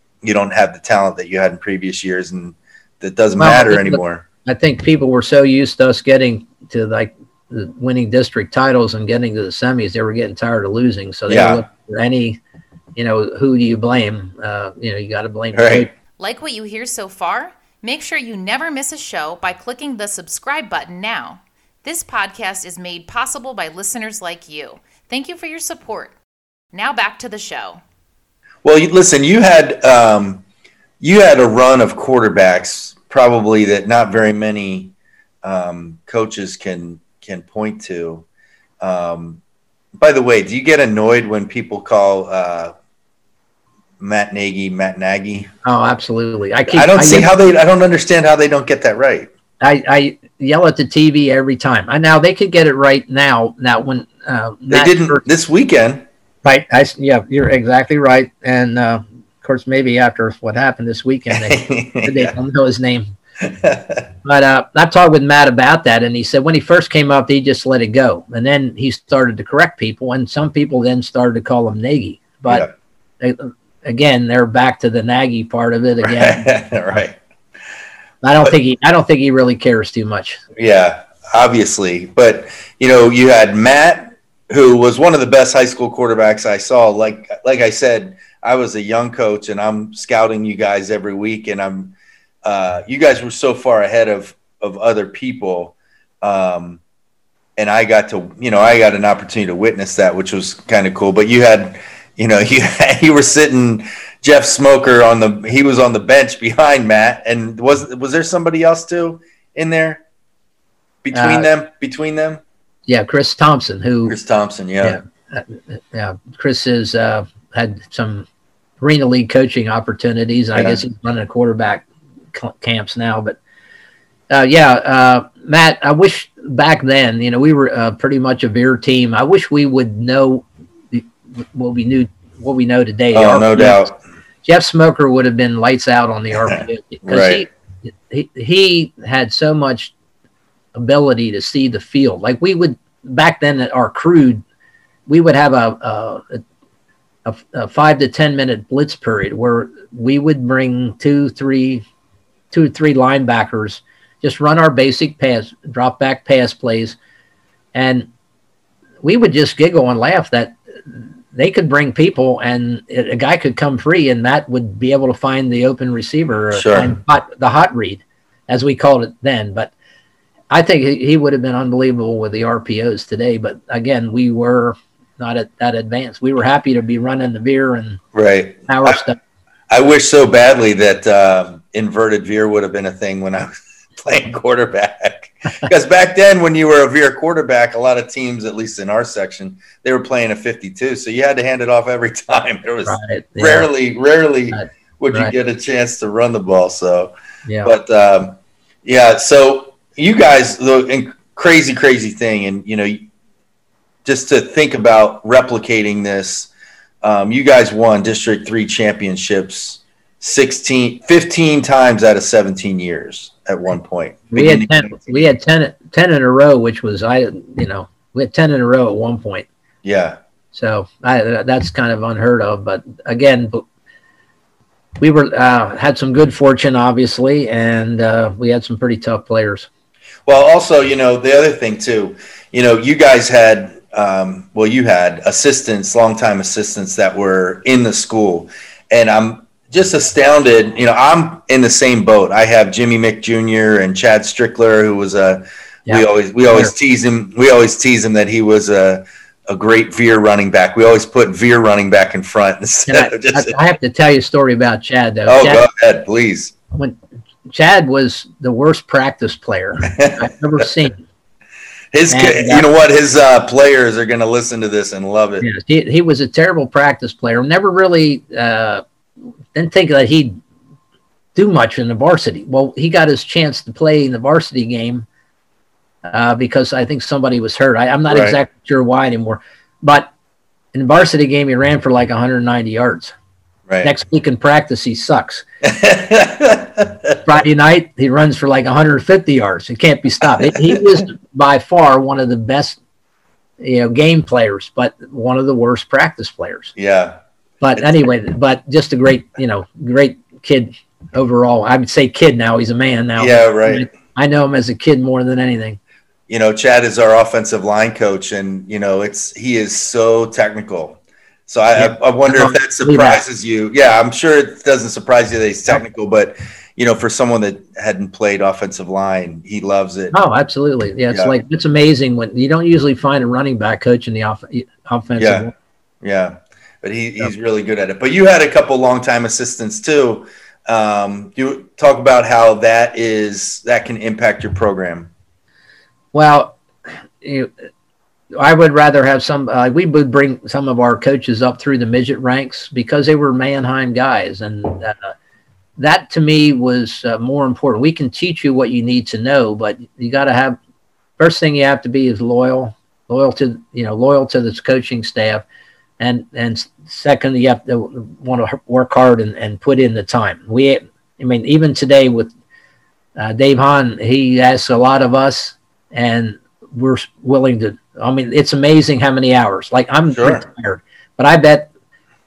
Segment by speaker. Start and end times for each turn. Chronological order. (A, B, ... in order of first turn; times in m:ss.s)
0:00.2-0:04.2 A
0:03.4-0:12.4 B
0:11.3-0:11.6 A
0:13.0-0:15.9 B
0:15.5-0:15.9 A
0:16.2-0:26.1 C
0:26.7-0:27.8 C
0:28.6-0:30.4 A
0:31.0-0:34.9 A
0:35.4-0:38.2 A
0:38.8-0:39.4 A
0:40.0-0:42.7 A
0:44.0-0:45.5 A
0:45.6-0:47.3 B
0:46.7-0:49.3 A
0:49.6-0:55.2 B
0:54.7-0:56.0 A
0:56.4-1:03.1 B
1:01.3-1:02.3 A
1:03.4-1:04.1 A
1:04.2-1:12.7 B
1:13.2-1:16.4 B
1:16.0-1:17.2 A
1:18.2-1:20.4 B
1:20.6-1:31.9 A
1:32.4-1:36.8 A
1:37.6-1:50.0 A
1:51.0-1:52.4 A
1:51.1-1:51.5 B
1:52.9-1:54.2 B
1:54.1-1:55.0 A
1:54.8-1:58.3 B
1:58.8-2:03.4 B
2:00.6-2:00.8 A
2:04.3-2:13.8 B
2:13.1-2:14.0 A
2:14.4-2:19.9 B
2:16.5-2:17.4 A
2:20.8-2:24.4 B
2:25.1-2:26.4 B
2:27.2-2:31.8 B
2:32.5-2:37.0 B
2:37.7-2:38.1 B
2:39.0-2:49.7 B
2:46.5-2:46.9 A
2:50.5-2:58.0 B
2:58.1-2:59.0 A
2:58.7-2:59.2 B
2:59.7-3:17.1 A
3:12.8-3:13.7 B
3:14.5-3:15.3 B
3:17.5-3:17.7 B
3:17.6-3:23.0 A
3:24.0-3:26.5 A
3:27.0-3:35.3 A
3:34.3-3:39.5 B
3:39.8-3:40.2 A
3:40.5-3:43.6 B
3:45.0-3:49.7 B
3:50.3-4:13.6 A
4:05.9-4:06.7 B
4:12.9-4:15.6 B
4:15.3-4:16.5 A
4:16.7-4:21.0 B
4:19.9-4:20.2 A
4:21.9-4:25.5 A
4:22.1-4:22.7 B
4:25.4-4:28.8 B
4:29.6-4:30.4 B
4:31.4-4:35.1 B
4:36.1-4:40.1 B
4:38.1-4:38.4 A
4:40.7-4:43.2 B
4:43.7-4:43.9 A
4:43.8-4:45.4 B
4:45.6-4:47.2 A
4:47.2-4:52.8 B
4:50.4-4:50.8 A
4:53.6-4:56.8 B
4:56.8-4:57.2 A
4:57.6-5:05.8 B
5:03.2-5:03.9 A
5:06.3-5:20.2 A
5:11.8-5:13.2 B
5:20.1-5:25.5 B
5:25.2-5:25.5 A
5:26.0-5:35.1 A
5:36.1-5:36.6 B
5:37.2-5:37.5 B
5:38.3-5:45.1 B
5:45.8-5:50.6 B
5:51.2-5:55.4 B
5:56.0-6:02.3 B
6:03.2-6:11.7 B
6:10.1-6:10.4 A